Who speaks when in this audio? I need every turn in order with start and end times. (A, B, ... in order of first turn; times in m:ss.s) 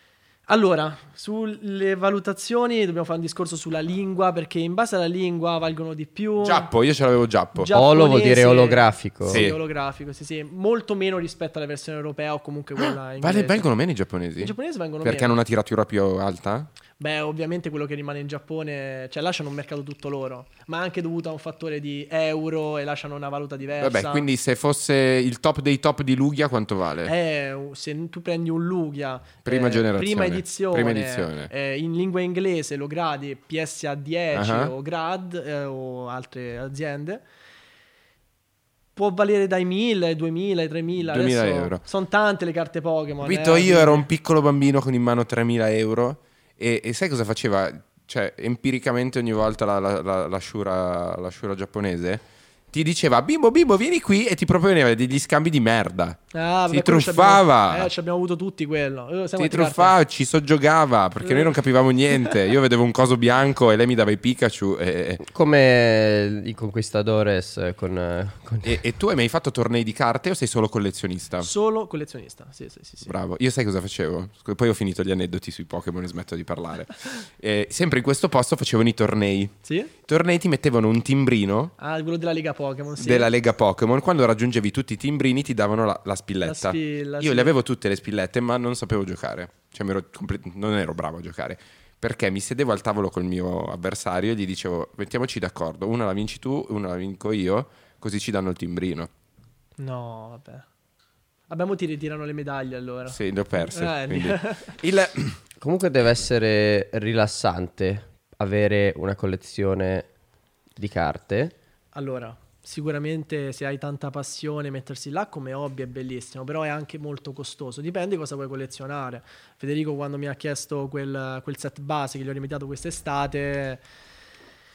0:00.5-0:06.7 A
0:06.4-0:07.7 B
0:07.5-0:13.7 A
0:07.7-0:09.4 C
0:09.3-0:09.6 B
0:12.8-0:16.7 B
0:14.4-0:15.4 A
0:17.0-0:24.2 A
0:23.8-0:27.1 B
0:27.0-0:37.2 A
0:29.4-0:31.5 B
0:34.3-0:34.7 B
0:39.0-0:44.1 A
0:41.0-0:41.8 B
0:43.2-0:57.9 B
0:56.3-0:59.9 A
0:59.4-1:05.2 B
1:01.2-1:01.5 A
1:05.2-1:08.8 C
1:08.6-1:11.5 B
1:11.4-1:13.1 A
1:13.0-1:19.5 B
1:19.6-1:19.9 A
1:20.0-1:21.7 B
1:21.8-1:23.3 A
1:23.0-1:39.1 B
1:26.4-1:27.5 A
1:39.8-1:40.6 A
1:41.5-1:44.8 A
1:43.1-1:45.4 B
1:45.6-1:50.1 C
1:50.8-1:51.5 C
1:52.0-2:03.8 A